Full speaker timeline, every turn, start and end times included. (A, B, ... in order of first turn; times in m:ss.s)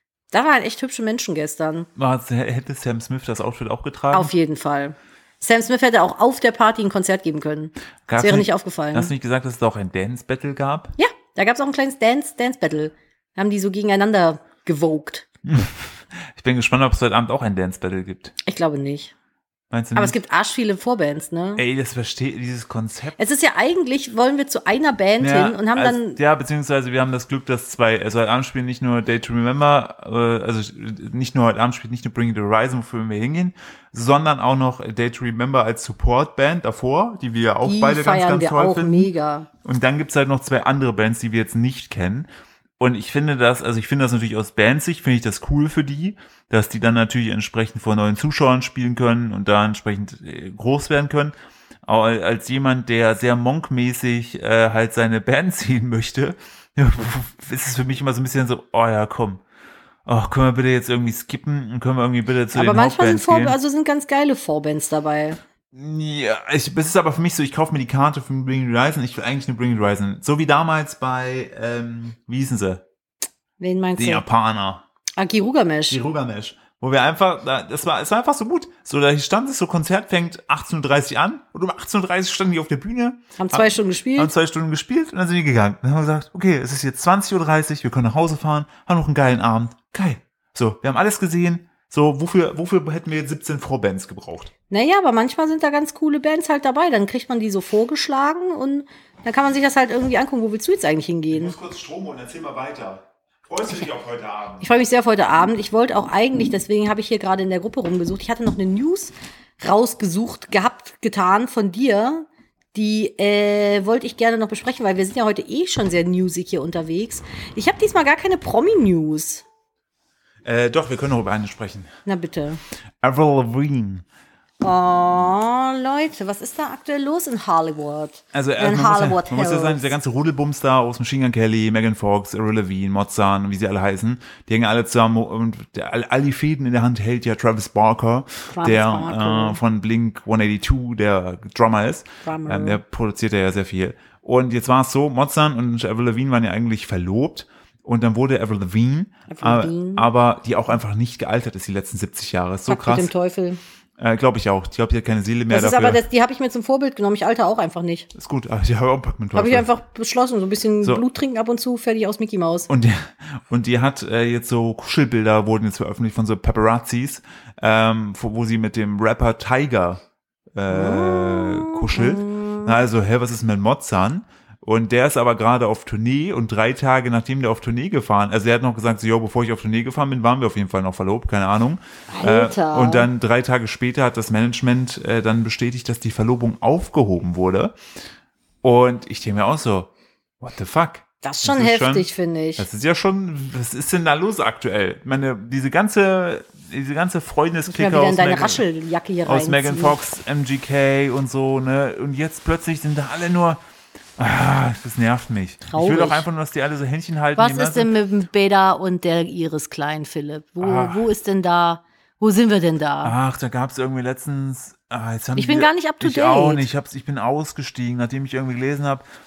0:00.3-0:01.9 A
0:02.0-0:04.3 B
0:04.1-0:09.1 A
0:08.1-0:10.9 B
0:11.0-0:15.2 A
0:15.4-0:18.3 B
0:18.4-0:19.1 A
0:19.7-0:20.2 B
0:19.9-0:21.6 A
0:21.6-0:23.2 B
0:23.2-0:26.2 A
0:25.2-0:39.1 B
0:37.6-0:39.5 A
0:39.6-0:42.3 B
0:42.8-0:51.3 B
0:51.8-0:59.4 B
1:00.0-1:03.6 B
1:02.5-1:05.4 A
1:05.7-1:12.8 B
1:13.6-1:14.2 A
1:14.0-1:14.8 B
1:15.2-1:16.0 A
1:15.9-1:34.5 B
1:23.4-1:24.3 A
1:34.7-1:41.5 A
1:41.3-1:44.7 B
1:44.6-1:59.4 A
2:00.4-2:01.9 B
2:02.0-2:02.6 A
2:03.0-2:04.0 B
2:04.6-2:09.9 A
2:08.3-2:33.1 B
2:18.5-2:19.6 A
2:22.2-2:22.8 A
2:29.3-2:30.1 A
2:32.7-2:33.6 A
2:34.0-2:36.0 B
2:35.5-2:38.1 A
2:38.1-2:39.7 B
2:39.3-2:42.7 A
2:42.7-2:50.0 B
2:50.5-3:07.8 B
2:50.7-2:52.8 A
3:02.1-3:03.1 A
3:08.6-3:18.6 B
3:11.2-3:12.6 A
3:17.7-3:20.0 A
3:19.2-3:23.6 B
3:24.2-3:27.9 B
3:25.7-3:26.2 A
3:27.4-3:33.1 A
3:30.6-3:31.1 B
3:33.0-3:39.0 B
3:35.4-3:36.6 A